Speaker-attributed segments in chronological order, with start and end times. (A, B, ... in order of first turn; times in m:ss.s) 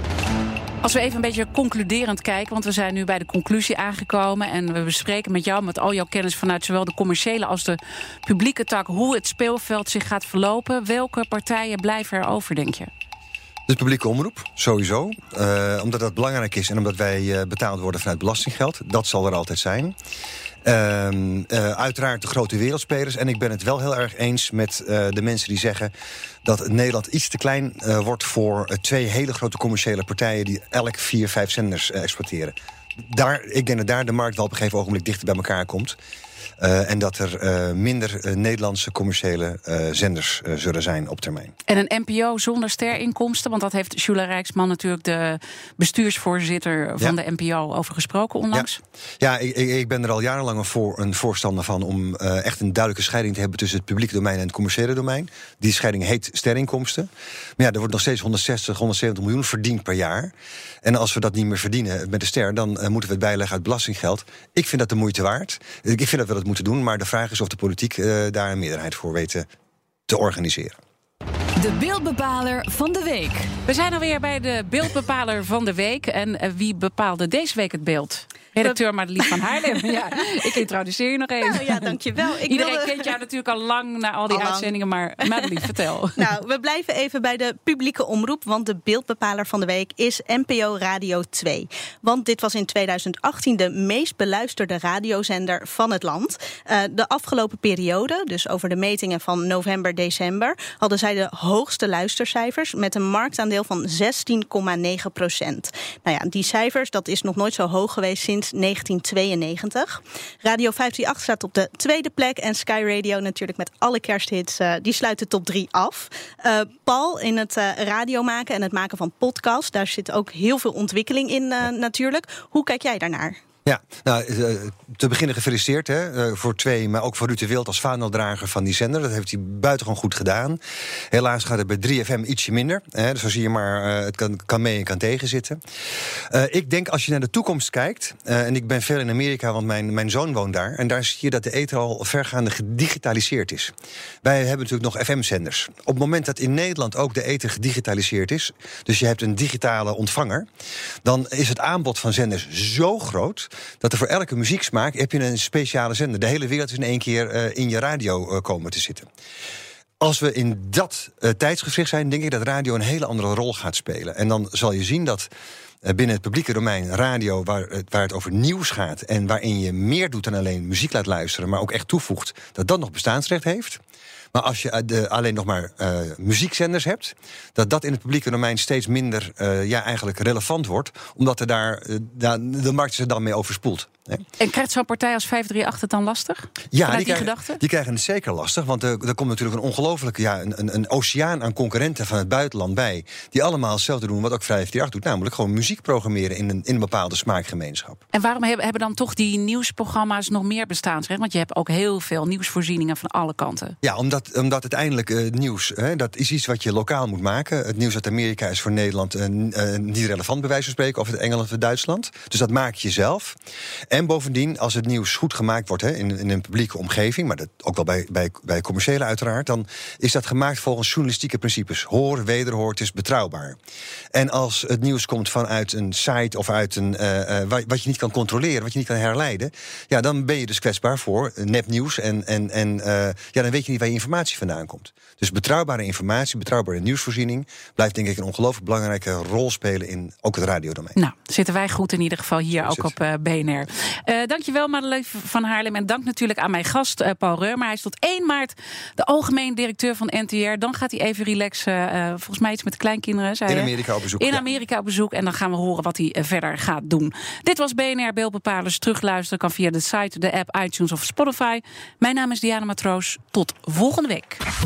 0:00.8-0:12.9 A
0:13.7-0:19.9 B
0:20.6-0:25.9 B
0:26.4-0:36.0 B
0:36.6-0:41.5 B
0:41.7-0:48.8 A
0:48.5-1:09.5 B
1:10.1-1:10.8 B
1:11.6-1:13.5 C
1:13.6-1:21.9 A
1:21.4-1:23.1 D
1:22.5-1:26.2 A
1:24.3-1:24.7 D
1:25.2-1:25.5 D
1:26.2-2:03.4 D
2:03.6-2:10.6 B
2:11.1-2:15.6 B
2:16.3-2:30.5 B
2:31.0-2:39.1 B
2:40.0-2:45.3 B
2:45.8-2:53.8 B
2:54.3-3:04.2 B
3:04.4-3:07.6 A
3:06.7-3:18.0 B
3:18.1-3:23.8 A
3:23.8-3:33.4 B
3:33.9-3:43.6 B
3:44.1-4:01.0 B
4:01.0-4:24.4 A
4:02.6-4:02.9 B
4:13.5-4:14.4 B